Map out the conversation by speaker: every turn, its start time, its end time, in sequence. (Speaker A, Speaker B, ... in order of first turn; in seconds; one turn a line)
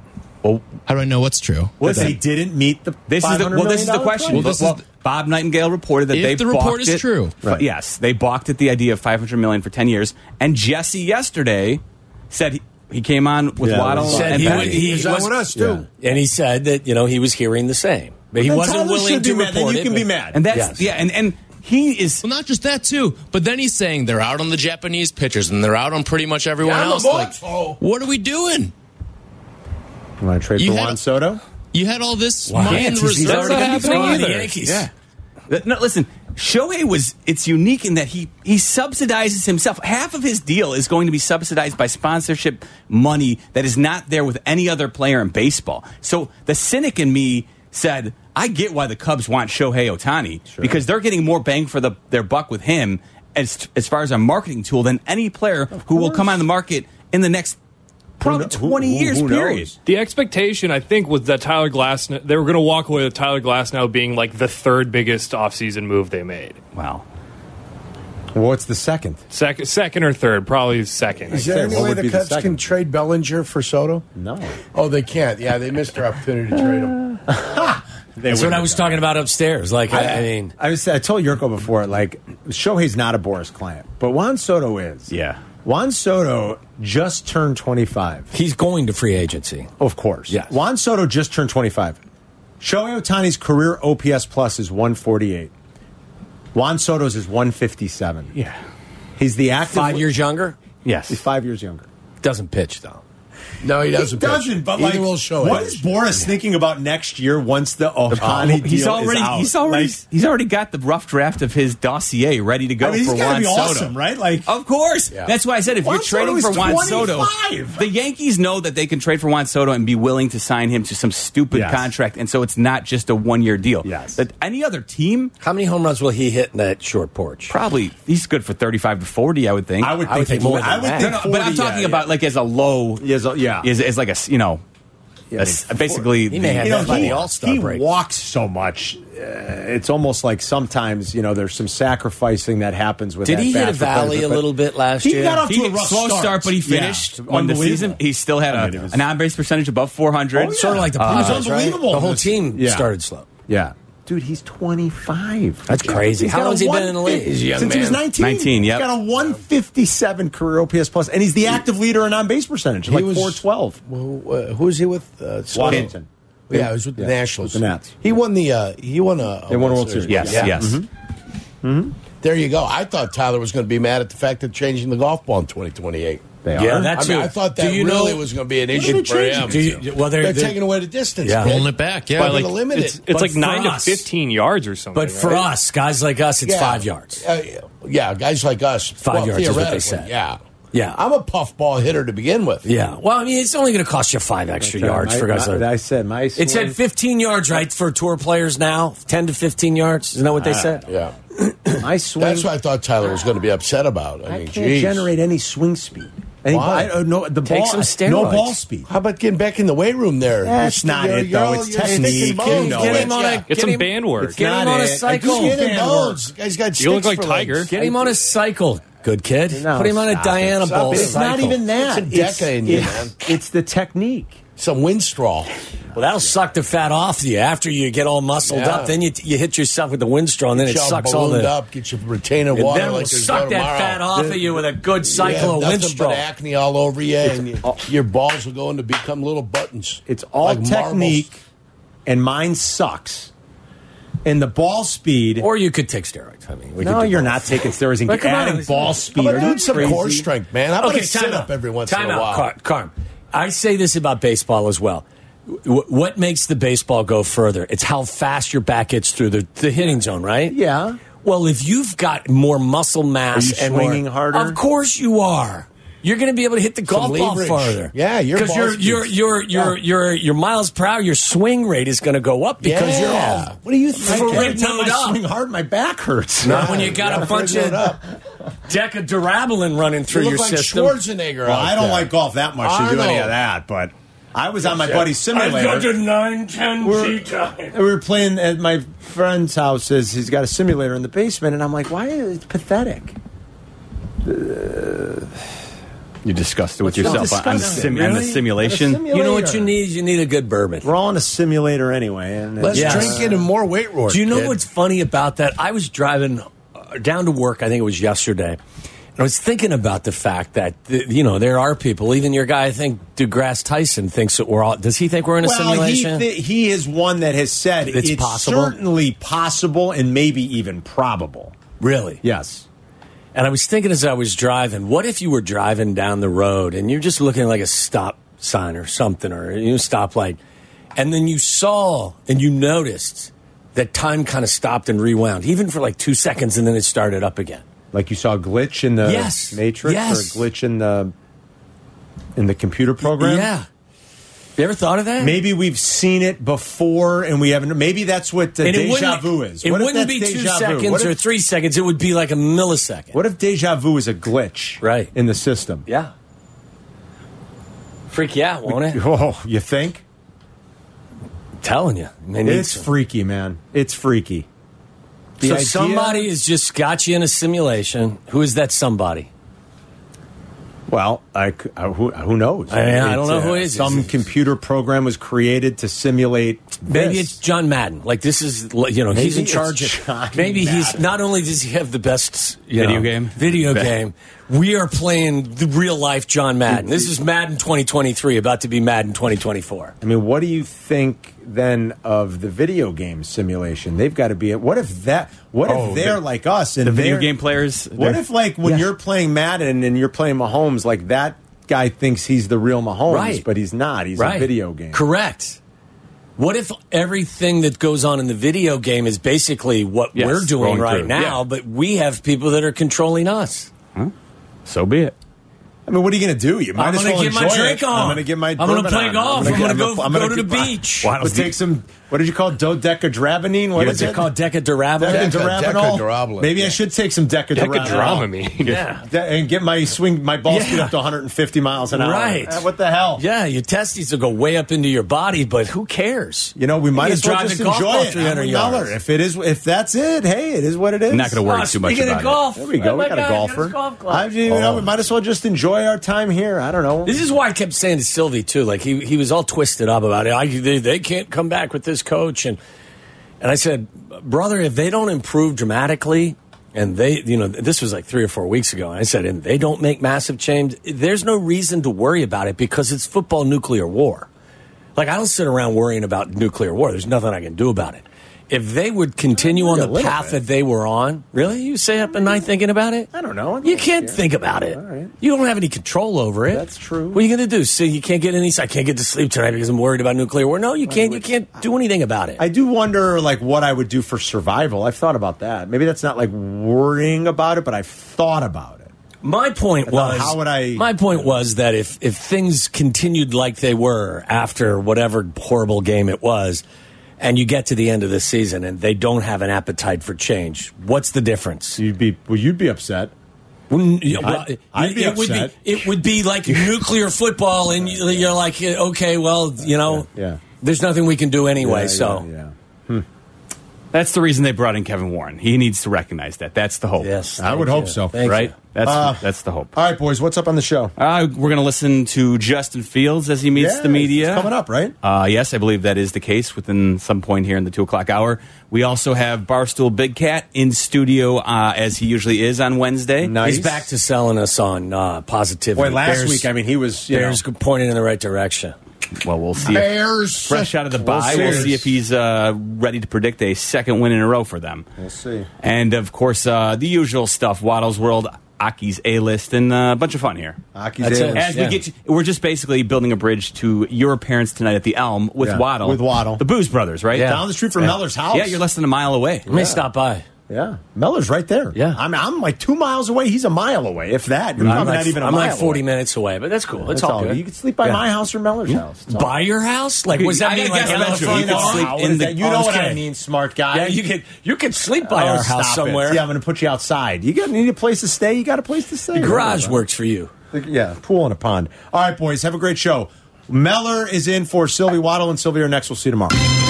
Speaker A: 0.9-2.1
Speaker B: 1.8-2.2
Speaker C: 1.8-4.6
Speaker B: 3.1-14.9
Speaker A: 4.3-4.8
Speaker A: 6.1-7.3
Speaker C: 13.6-14.8
Speaker D: 14.0-15.4
Speaker E: 14.2-15.8
Speaker C: 15.5-15.8
Speaker D: 16.0-20.8
Speaker C: 18.3-20.4
Speaker B: 20.3-22.2
Speaker A: 22.2-28.7
Speaker E: 26.6-27.8
Speaker C: 30.2-31.4
Speaker A: 30.6-31.0
Speaker A: 31.7-34.3
Speaker D: 32.5-34.9
Speaker F: 32.8-34.5
Speaker B: 34.6-34.9
Speaker B: 35.5-57.6
Speaker C: 50.5-50.8
Speaker C: 55.7-56.4
Speaker B: 58.2-59.7
Speaker C: 58.2-59.8
Speaker F: 59.9-66.6
Speaker B: 66.7-67.0
Speaker C: 68.3-69.2
Speaker F: 69.3-71.5
Speaker C: 71.3-72.7
Speaker E: 71.3-74.0
Speaker C: 74.1-74.6
Speaker E: 74.7-77.2
Speaker C: 77.3-79.0
Speaker D: 78.3-80.5
Speaker C: 79.9-85.1
Speaker B: 85.1-85.4
Speaker C: 85.6-88.3
Speaker D: 88.3-89.7
Speaker C: 89.8-92.0
Speaker D: 90.3-90.5
Speaker C: 92.6-95.5
Speaker C: 96.5-98.3
Speaker C: 99.2-100.1
Speaker D: 99.7-100.5
Speaker B: 100.8-101.2
Speaker C: 101.1-101.9
Speaker D: 102.2-103.0
Speaker E: 103.6-105.9
Speaker C: 104.0-110.0
Speaker B: 108.1-113.9
Speaker C: 112.8-114.5
Speaker B: 114.5-125.3
Speaker C: 115.8-117.9
Speaker C: 121.5-121.9
Speaker C: 123.8-124.2
Speaker D: 125.4-127.5
Speaker B: 127.5-130.0
Speaker C: 129.8-132.1
Speaker D: 130.1-131.2
Speaker B: 131.0-133.1
Speaker C: 133.0-133.7
Speaker B: 133.6-134.6
Speaker C: 135.3-136.1
Speaker B: 135.3-137.2
Speaker D: 136.3-137.8
Speaker C: 136.6-149.0
Speaker D: 143.2-145.4
Speaker B: 145.5-151.4
Speaker C: 150.3-152.9
Speaker D: 150.4-153.2
Speaker C: 153.5-163.8
Speaker D: 155.7-157.9
Speaker E: 157.5-158.0
Speaker B: 158.2-158.9
Speaker E: 162.9-165.9
Speaker C: 165.5-167.9
Speaker E: 166.5-170.5
Speaker C: 169.5-170.9
Speaker B: 170.1-170.8
Speaker D: 170.2-170.5
Speaker C: 171.6-171.9
Speaker E: 172.2-183.0
Speaker C: 176.4-176.9
Speaker D: 176.5-178.2
Speaker C: 178.7-179.8
Speaker D: 178.9-180.6
Speaker D: 181.2-181.6
Speaker A: 181.4-182.5
Speaker F: 182.2-185.5
Speaker D: 183.1-184.1
Speaker D: 184.9-187.2
Speaker E: 186.4-190.4
Speaker D: 189.0-190.1
Speaker D: 190.7-191.0
Speaker E: 190.9-192.6
Speaker D: 192.6-195.7
Speaker C: 194.6-196.8
Speaker D: 196.3-200.8
Speaker C: 200.3-200.8
Speaker E: 200.9-201.1
Speaker D: 201.4-201.8
Speaker C: 201.8-202.5
Speaker E: 202.2-205.1
Speaker C: 204.2-208.9
Speaker E: 206.5-206.9
Speaker D: 207.4-208.6
Speaker E: 208.8-213.4
Speaker C: 210.4-213.4
Speaker D: 211.9-215.6
Speaker F: 213.5-214.4
Speaker C: 214.2-216.2
Speaker E: 215.1-218.2
Speaker F: 216.8-217.7
Speaker D: 217.7-221.6
Speaker C: 219.5-224.4
Speaker E: 220.6-223.1
Speaker E: 224.6-225.5
Speaker C: 225.9-226.3
Speaker D: 225.9-231.5
Speaker E: 228.5-229.0
Speaker E: 230.5-241.3
Speaker D: 232.5-236.2
Speaker C: 237.2-237.8
Speaker C: 240.1-241.4
Speaker C: 242.1-243.3
Speaker C: 244.2-245.5
Speaker D: 245.4-250.1
Speaker C: 246.8-250.3
Speaker E: 249.1-252.5
Speaker D: 250.8-260.6
Speaker C: 260.5-261.0
Speaker D: 261.2-275.2
Speaker C: 263.3-264.6
Speaker E: 266.9-269.7
Speaker E: 272.6-274.5
Speaker C: 273.9-277.2
Speaker D: 276.4-277.8
Speaker E: 276.4-278.0
Speaker D: 278.7-281.0
Speaker E: 280.1-283.4
Speaker C: 281.4-286.0
Speaker D: 284.6-287.8
Speaker C: 286.8-293.1
Speaker C: 294.2-295.3
Speaker B: 296.2-299.0
Speaker C: 296.8-299.8
Speaker D: 296.9-298.4
Speaker D: 299.1-300.9
Speaker C: 300.8-303.4
Speaker E: 302.6-304.6
Speaker D: 302.7-303.3
Speaker D: 304.1-308.6
Speaker D: 309.2-316.2
Speaker C: 315.4-321.5
Speaker D: 317.9-318.8
Speaker D: 321.8-322.2
Speaker C: 322.2-322.6
Speaker D: 323.3-330.4
Speaker D: 330.9-337.6
Speaker C: 337.9-341.1
Speaker D: 339.0-340.4
Speaker C: 342.4-343.5
Speaker D: 343.0-343.6
Speaker D: 344.6-345.4
Speaker C: 345.2-351.2
Speaker D: 348.6-353.1
Speaker C: 353.1-355.8
Speaker D: 354.8-355.1
Speaker D: 355.9-356.1
Speaker D: 358.1-359.0
Speaker C: 358.6-360.0
Speaker D: 361.6-362.9
Speaker C: 362.4-364.5
Speaker C: 365.4-366.3
Speaker D: 365.4-369.3
Speaker C: 370.9-377.4
Speaker D: 372.7-374.1
Speaker D: 376.8-389.9
Speaker C: 379.1-381.1
Speaker B: 382.8-383.9
Speaker C: 386.7-387.1
Speaker C: 390.0-397.3
Speaker B: 395.6-396.2
Speaker B: 396.8-398.2
Speaker C: 397.9-405.0
Speaker D: 403.1-403.4
Speaker D: 404.1-405.6
Speaker D: 406.4-413.7
Speaker B: 410.1-411.4
Speaker B: 414.6-415.1
Speaker C: 415.9-424.3
Speaker D: 416.8-421.1
Speaker B: 421.0-421.5
Speaker D: 423.8-425.4
Speaker C: 425.0-428.3
Speaker E: 425.0-426.8
Speaker F: 427.5-428.6
Speaker B: 428.1-428.7
Speaker D: 428.6-429.1
Speaker C: 429.0-433.2
Speaker D: 430.5-430.9
Speaker D: 431.9-432.6
Speaker D: 433.1-438.9
Speaker C: 436.6-441.4
Speaker B: 441.1-442.4
Speaker D: 441.4-444.8
Speaker C: 442.5-447.2
Speaker D: 447.0-452.6
Speaker D: 453.4-464.3
Speaker D: 464.9-473.1
Speaker C: 469.3-470.4
Speaker C: 472.1-472.4
Speaker C: 473.1-475.1
Speaker D: 473.6-482.4
Speaker C: 476.5-477.2
Speaker C: 480.9-481.4
Speaker C: 482.4-488.9
Speaker D: 489.2-496.6
Speaker C: 489.9-491.2
Speaker D: 497.2-501.8
Speaker C: 501.8-503.1
Speaker D: 503.7-510.1
Speaker C: 504.1-505.9
Speaker C: 507.7-508.4
Speaker C: 509.6-510.4
Speaker D: 510.6-512.3
Speaker C: 511.6-513.0
Speaker B: 513.9-517.1
Speaker D: 517.0-518.5
Speaker C: 517.4-520.9
Speaker B: 518.2-519.7
Speaker B: 521.0-524.5
Speaker C: 523.5-524.9
Speaker B: 525.0-533.3
Speaker C: 533.2-533.9
Speaker D: 533.4-536.5
Speaker C: 535.8-537.4
Speaker D: 537.1-538.7
Speaker B: 539.2-544.9
Speaker E: 539.6-541.7
Speaker C: 541.0-541.9
Speaker C: 545.0-545.5
Speaker B: 545.6-550.6
Speaker C: 550.7-551.7
Speaker D: 551.0-551.8
Speaker B: 551.3-557.4
Speaker C: 555.4-556.4
Speaker D: 557.1-557.4
Speaker C: 557.2-558.6
Speaker B: 557.9-559.5
Speaker C: 559.5-559.8
Speaker D: 559.5-560.2
Speaker C: 560.5-565.8
Speaker D: 561.7-562.0
Speaker D: 564.6-568.0
Speaker C: 566.9-569.3
Speaker D: 569.1-573.0
Speaker B: 570.1-572.5
Speaker C: 570.8-574.0
Speaker D: 573.7-576.2
Speaker C: 575.0-579.8
Speaker D: 579.1-580.3
Speaker C: 580.5-586.3